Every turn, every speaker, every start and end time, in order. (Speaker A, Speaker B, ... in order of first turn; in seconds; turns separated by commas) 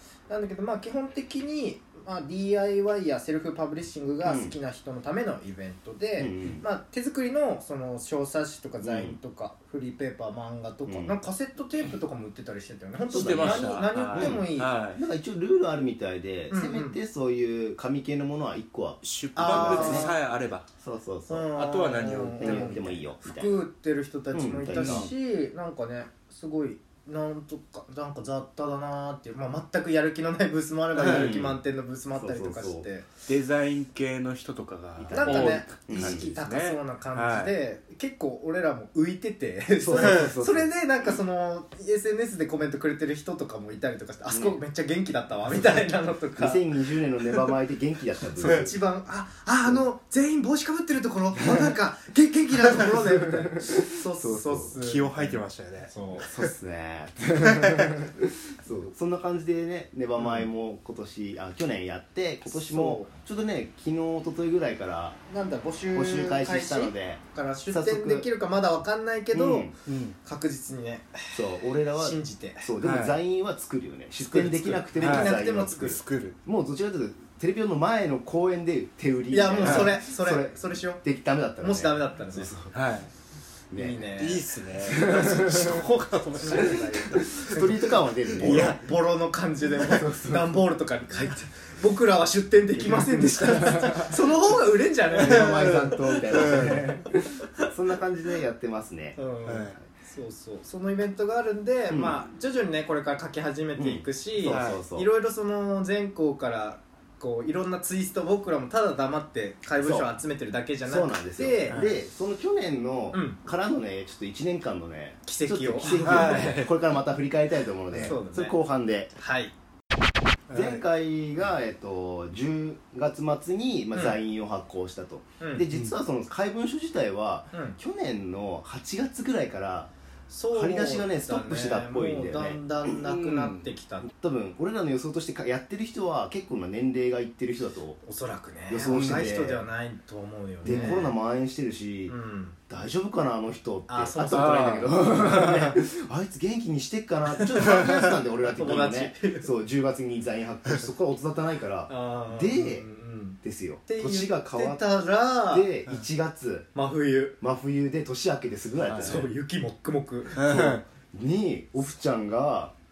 Speaker A: 0.3-14.8, Speaker B: 4.2-4.5, Speaker B: 6.2-6.6, Speaker B: 8.8-9.2, Speaker B: 10.9-11.2, Speaker C: 13.1-15.0, Speaker B: 13.1-20.1, Speaker A: 16.5-17.0, Speaker C: 19.0-20.7, Speaker A: 19.4-20.1, Speaker B: 20.8-21.5, Speaker A: 21.3-33.1, Speaker C: 21.6-23.0, Speaker B: 22.1-23.6, Speaker B: 24.3-25.1, Speaker C: 24.7-25.1, Speaker C: 31.0-31.4, Speaker B: 31.0-31.6, Speaker B: 32.1-32.9, Speaker C: 33.3-37.5, Speaker B: 35.0-36.4, Speaker A: 35.1-46.6, Speaker B: 39.8-40.7, Speaker C: 40.0-40.4, Speaker B: 44.3-44.6, Speaker B: 46.4-48.7, Speaker A: 48.4-56.3, Speaker C: 48.4-48.7, Speaker B: 53.7-54.8, Speaker C: 54.8-56.3, Speaker B: 56.2-65.2, Speaker A: 60.2-60.5, Speaker A: 62.5-63.1, Speaker A: 65.3-69.7, Speaker B: 65.9-68.3, Speaker B: 69.3-69.7, Speaker C: 69.9-70.2, Speaker A: 70.2-72.7, Speaker B: 71.3-82.7, Speaker C: 72.8-73.2, Speaker A: 74.2-76.0, Speaker C: 75.0-76.4, Speaker A: 79.3-81.0, Speaker C: 79.6-80.0, Speaker A: 81.6-82.5, Speaker C: 82.7-83.1, Speaker B: 83.7-84.1, Speaker A: 83.7-85.1, Speaker C: 84.2-87.7, Speaker B: 84.9-85.8, Speaker A: 86.4-97.0, Speaker B: 87.3-88.8, Speaker C: 88.3-88.8, Speaker B: 89.8-90.6, Speaker B: 92.9-94.0, Speaker C: 93.2-94.0, Speaker B: 95.2-99.2, Speaker C: 95.2-97.0, Speaker A: 99.2-111.9, Speaker C: 99.5-99.8, Speaker B: 101.9-102.2, Speaker B: 103.8-105.1, Speaker C: 104.5-104.8, Speaker B: 109.8-110.1, Speaker B: 110.9-119.1, Speaker C: 111.7-111.9, Speaker A: 113.1-113.4, Speaker A: 115.3-116.7, Speaker C: 115.9-116.7, Speaker A: 118.0-118.6, Speaker A: 119.2-119.5, Speaker C: 120.5-120.8, Speaker B: 120.5-129.9, Speaker A: 123.9-124.2, Speaker A: 125.4-125.7, Speaker A: 127.5-127.8, Speaker A: 130.3-134.1, Speaker B: 130.5-132.7, Speaker C: 133.0-133.7, Speaker B: 134.0-138.0, Speaker A: 138.0-141.2, Speaker B: 138.7-139.6, Speaker C: 138.8-139.4, Speaker B: 140.6-142.2, Speaker C: 140.6-140.9, Speaker A: 142.1-142.7, Speaker B: 142.7-152.9, Speaker A: 143.9-145.4, Speaker C: 144.2-145.8, Speaker A: 147.6-149.5, Speaker C: 147.7-148.1, Speaker A: 151.9-155.7, Speaker B: 153.4-154.8, Speaker B: 155.5-156.7, Speaker A: 156.7-157.4, Speaker B: 157.4-159.3, Speaker C: 158.8-159.2, Speaker A: 158.9-160.4, Speaker B: 160.3-162.7, Speaker C: 160.4-160.8